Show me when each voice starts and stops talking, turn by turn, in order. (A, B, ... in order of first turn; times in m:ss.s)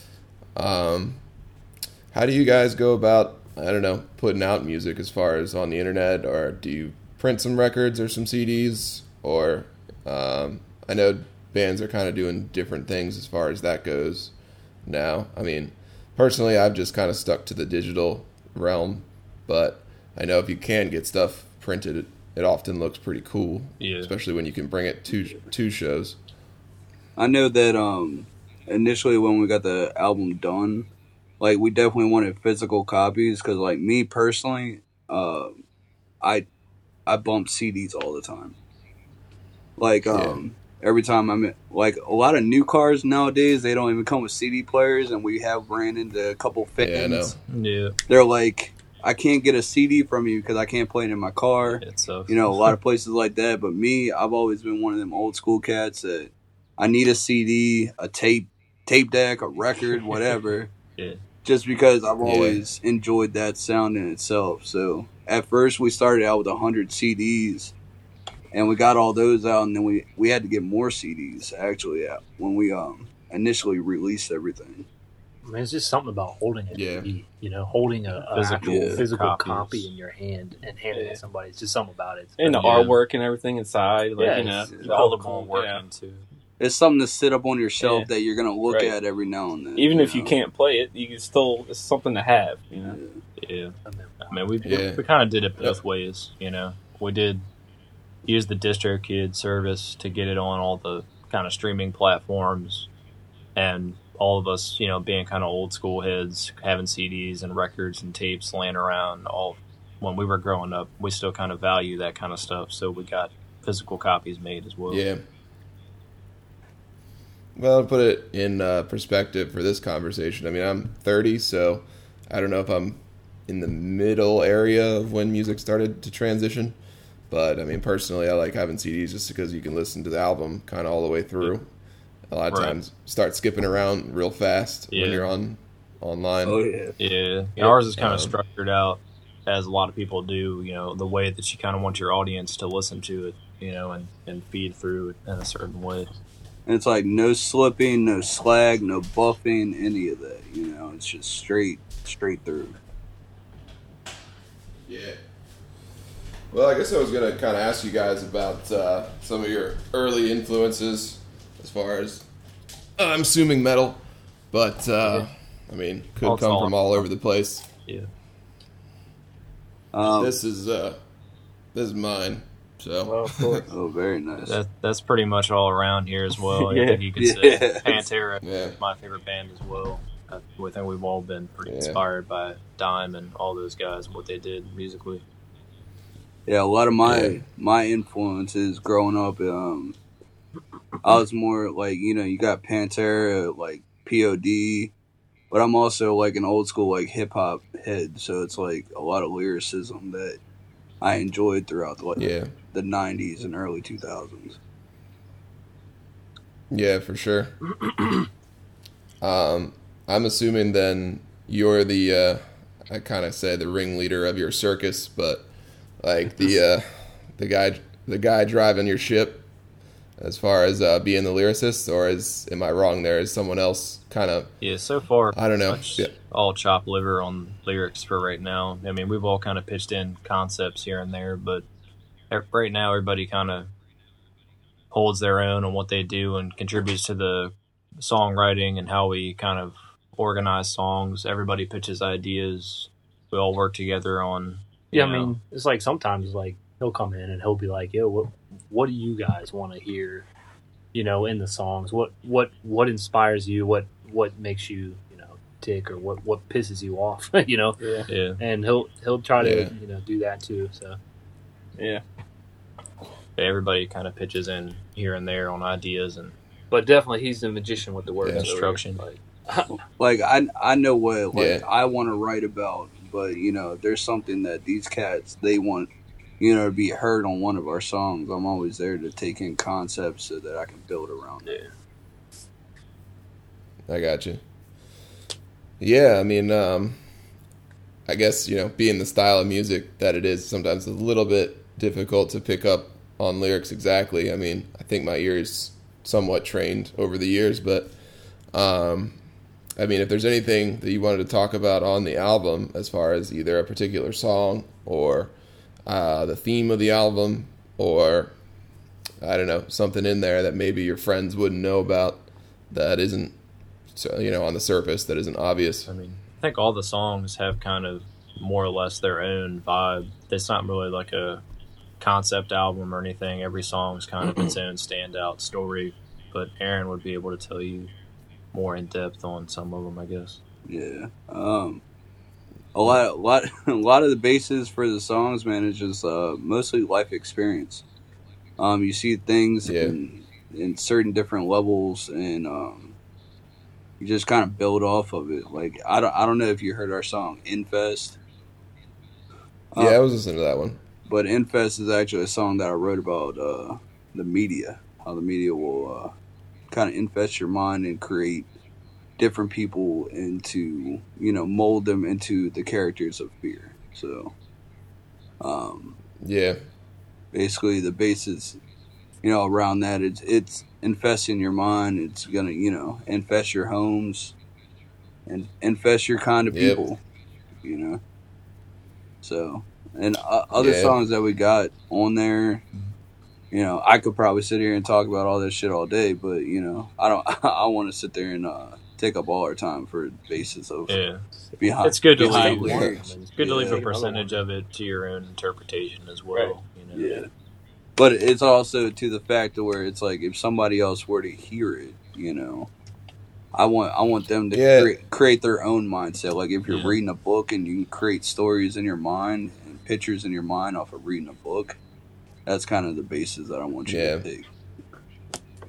0:00.6-0:01.2 A
0:02.1-0:14.3 A
0:14.8-0:26.2 A
0:23.8-0:24.1 B
0:27.2-0:35.6 C
0:37.1-0:38.6 C
0:39.8-0:47.4 C
0:40.1-0:40.4 A
0:46.8-0:47.4 A
0:47.5-0:48.0 B
0:48.1-1:00.7 C
0:51.8-0:52.7 B
1:01.0-1:01.2 B
1:01.4-1:07.7 C
1:02.2-1:02.6 A
1:08.5-1:14.9 C
1:15.4-1:22.8 D
1:16.7-1:17.1 A
1:18.3-1:19.9 B
1:18.6-1:19.0 C
1:20.9-1:21.2 E
1:22.4-1:25.8 E
1:22.4-1:23.0 B
1:24.2-1:25.1 D
1:24.4-1:26.3 B
1:26.6-1:30.4 C
1:27.8-1:28.1 E
1:28.7-1:29.0 E
1:29.8-1:33.0 E
1:32.9-1:33.2 C
1:33.4-1:33.8 B
1:33.9-1:34.4 D
1:34.3-1:37.4 B
1:34.6-1:35.0 A
1:38.2-1:42.9 B
1:43.6-1:55.1 B
1:54.9-1:55.2 A
1:57.6-2:06.8 A
2:07.3-2:11.7 A
2:12.3-2:16.6 A
2:12.5-2:12.8 B
2:14.9-2:15.2 B
2:16.4-2:17.0 C
2:17.0-2:26.1 B
2:18.0-2:18.4 A
2:26.7-2:32.8 C
2:34.9-2:35.2 A
2:36.5-2:42.3 A
2:43.0-2:47.7 A
2:46.2-2:47.1 B
2:49.9-2:50.4 C
2:50.1-2:51.0 A
2:51.7-2:53.6 A
2:53.0-2:53.7 E
2:53.7-2:54.6 C
2:54.5-3:05.2 B
2:56.6-2:57.1 E
2:57.2-2:58.0 C
2:58.4-2:58.8 A
3:01.6-3:02.0 A
3:06.5-3:10.0 C
3:07.0-3:07.4 A
3:11.0-3:14.9 C
3:15.5-3:20.4 C
3:21.0-3:24.6 C
3:22.2-3:22.5 A
3:26.7-3:27.6 A
3:29.2-3:35.5 A
3:36.0-3:39.4 A
3:40.2-3:44.5 A
3:44.6-3:51.7 B
3:45.3-3:46.1 A
3:52.3-3:53.7 B
3:54.9-4:05.4 B
4:04.9-4:10.3 D
4:10.9-4:21.0 D
4:17.8-4:18.1 E
4:18.1-4:18.4 B
4:19.4-4:19.7 A
4:21.8-4:22.0 E
4:23.4-4:26.3 B
4:26.7-4:29.8 D
4:28.3-4:29.0 B
4:30.0-4:41.6 C
4:31.3-4:31.6 A
4:43.9-4:44.4 A
4:45.8-4:47.0 A
4:48.1-4:57.9 A
4:58.5-4:59.2 A
4:59.8-5:05.3 A
5:05.9-5:08.3 A
5:09.2-5:13.4 A
5:13.9-5:15.9 A
5:15.9-5:21.4 B
5:22.0-5:27.9 B
5:28.5-5:30.4 B
5:30.7-5:31.8 C
5:32.8-5:37.8 C
5:38.6-5:43.0 C
5:39.7-5:40.0 A
5:44.0-5:48.2 C
5:49.8-5:50.8 A
5:51.1-5:56.1 C
5:56.7-5:58.5 C
5:59.2-6:04.3 C
6:05.4-6:06.0 C
6:06.2-6:06.6 A
6:07.3-6:08.6 C
6:09.2-6:14.4 C
6:15.3-6:17.0 C
6:16.5-6:16.8 A
6:17.6-6:18.0 C
6:19.2-6:22.6 C
6:20.5-6:21.0 A
6:23.5-6:31.0 C
6:30.9-6:31.2 B
6:31.6-6:33.8 C
6:31.8-6:37.2 B
6:32.2-6:34.4 D
6:36.9-6:37.3 C
6:38.0-6:42.7 C
6:43.5-6:51.8 C
6:44.5-6:44.9 A
6:46.7-6:47.0 B
6:52.5-6:54.5 C
6:53.9-6:54.3 A